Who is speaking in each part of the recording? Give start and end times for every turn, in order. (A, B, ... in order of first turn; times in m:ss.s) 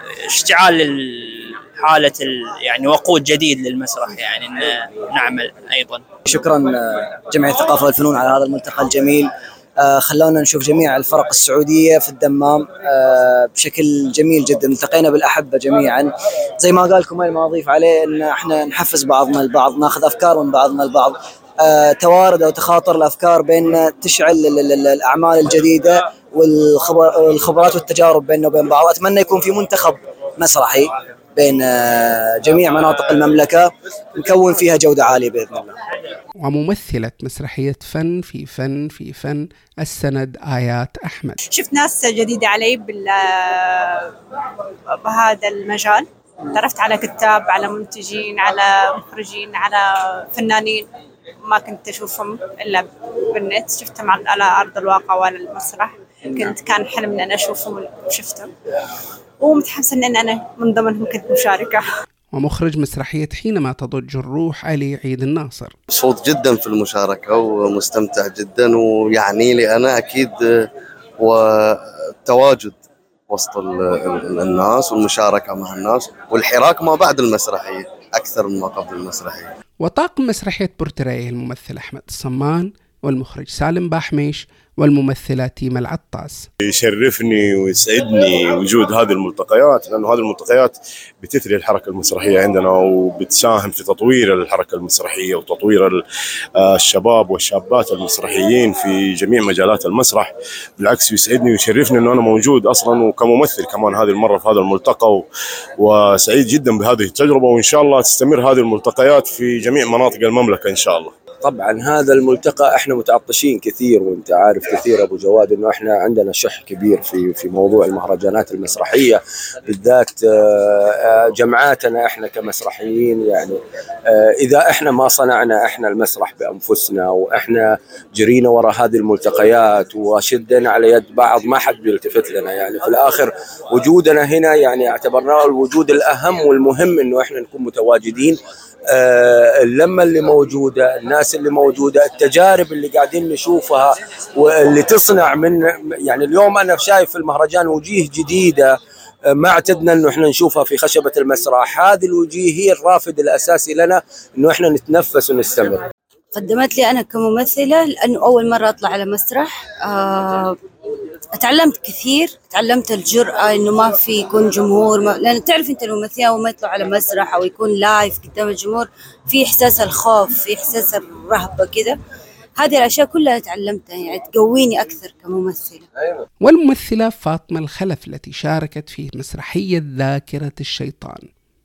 0:00.2-0:06.0 A
0:06.2-0:09.3 B
0:09.8-0:35.7 B
0:36.4-0:41.4 C
0:41.5-0:44.1 D
0:44.9-0:50.8 D
0:51.4-0:58.5 D
0:59.4-1:01.8 D
1:02.3-1:05.7 C
1:05.9-1:10.6 E
1:11.2-1:19.5 E
1:19.8-1:26.5 C
1:26.6-1:36.0 F
1:36.6-1:45.2 F
1:45.8-1:51.1 F
1:51.4-2:18.4 G
2:18.9-2:28.7 G
2:29.3-2:35.8 G
2:36.3-2:40.6 H
2:41.3-2:52.0 H
2:52.6-2:55.8 H
2:56.4-3:01.3 C